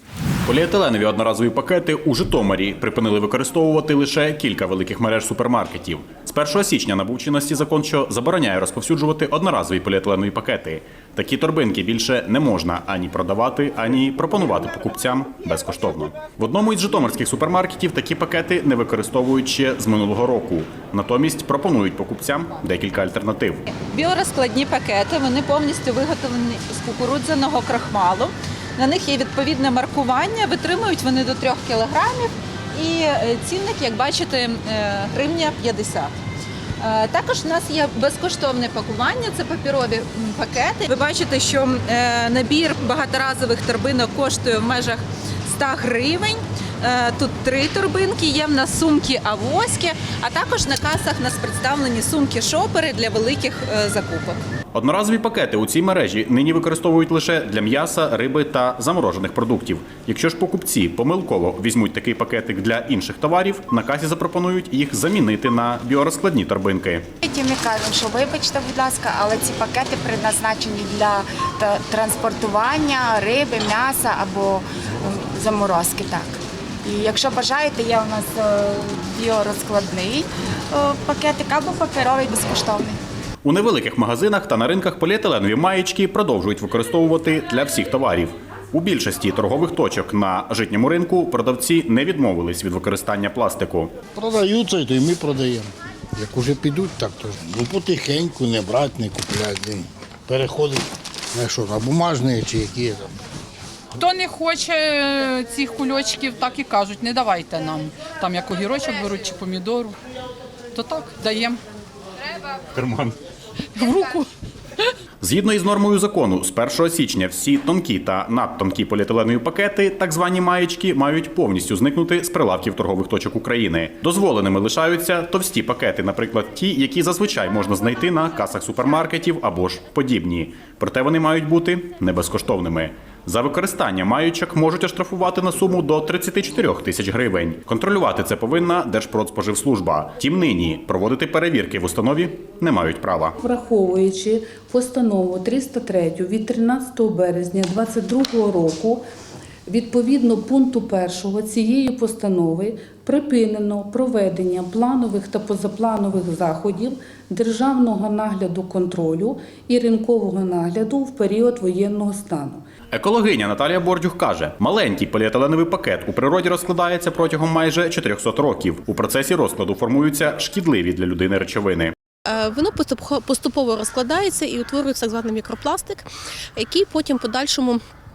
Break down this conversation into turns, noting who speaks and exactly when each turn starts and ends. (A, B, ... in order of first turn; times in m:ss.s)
0:00.4-0:23.6 A
0:23.9-0:36.1 B
0:36.8-0:54.4 B
0:54.7-1:07.1 A
1:07.2-1:23.0 C
1:23.4-1:33.9 A
1:34.1-1:40.8 D
1:41.3-1:43.0 D
1:44.0-1:49.9 E
1:50.8-1:51.6 E
1:52.7-1:53.1 A
1:55.2-2:23.4 A
2:23.4-2:29.0 F
2:29.7-2:42.6 F
2:42.9-2:51.9 A
2:52.3-2:57.8 G